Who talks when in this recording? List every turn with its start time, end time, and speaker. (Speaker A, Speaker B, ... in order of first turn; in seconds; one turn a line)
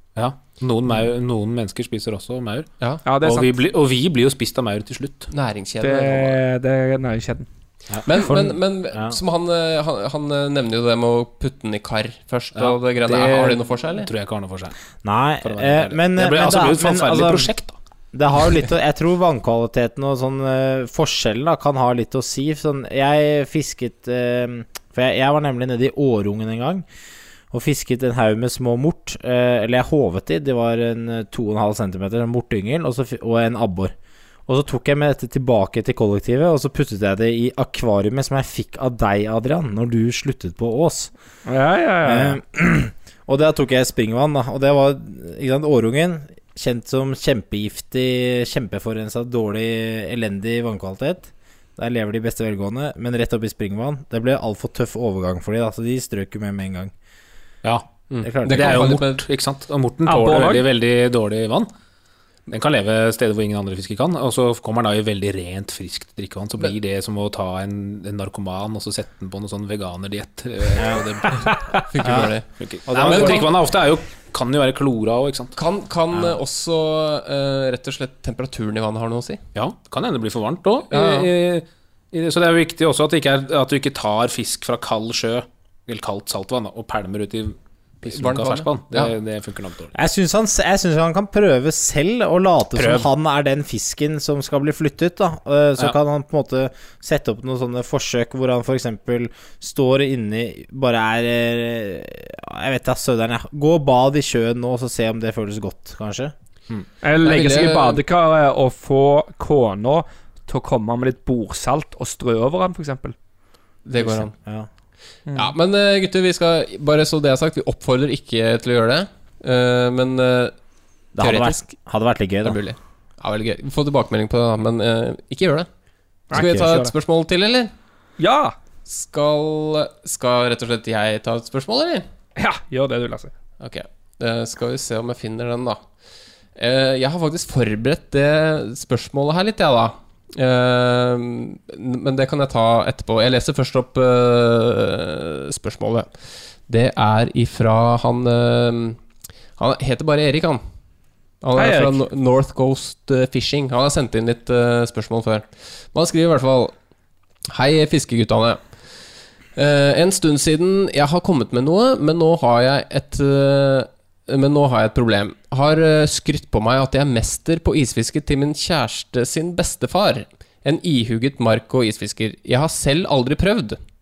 Speaker A: 0.1-2.7
Speaker B: 3.0-3.6
Speaker A: 3.2-5.3
Speaker C: 5.3-6.4
Speaker B: 5.8-7.5
Speaker A: 7.9-8.3
Speaker C: 8.0-14.1
Speaker D: 8.3-9.2
Speaker A: 12.6-14.7
Speaker D: 15.0-17.5
Speaker A: 15.4-17.8
Speaker D: 18.1-26.9
Speaker D: 27.5-33.9
Speaker D: 34.5-41.1
Speaker B: 41.5-42.4
Speaker D: 42.0-56.9
Speaker C: 58.1-59.3
Speaker D: 58.2-59.0
Speaker A: 58.5-61.7
Speaker B: 60.0-60.7
Speaker A: 62.5-75.5
Speaker C: 71.9-72.5
Speaker D: 72.0-72.3
Speaker D: 72.9-73.4
Speaker C: 73.0-73.4
Speaker C: 75.5-79.4
Speaker A: 79.5-89.9
Speaker C: 80.9-81.3
Speaker C: 88.0-89.1
Speaker D: 89.9-106.3
Speaker A: 92.8-93.1
Speaker B: 107.0-113.1
Speaker C: 107.2-108.0
Speaker C: 113.9-114.3
Speaker D: 114.0-114.7
Speaker C: 115.3-120.5
Speaker D: 121.1-122.6
Speaker C: 121.2-121.6
Speaker C: 122.4-125.7
Speaker B: 126.3-126.9
Speaker C: 126.3-127.7
Speaker D: 126.3-126.7
Speaker B: 128.2-128.6
Speaker C: 128.9-132.1
Speaker B: 132.4-133.3
Speaker C: 133.6-135.8
Speaker C: 136.6-146.1
Speaker C: 146.7-149.0
Speaker C: 149.6-150.6
Speaker C: 151.4-156.7
Speaker B: 151.6-152.0
Speaker C: 157.5-158.6
Speaker C: 159.6-173.8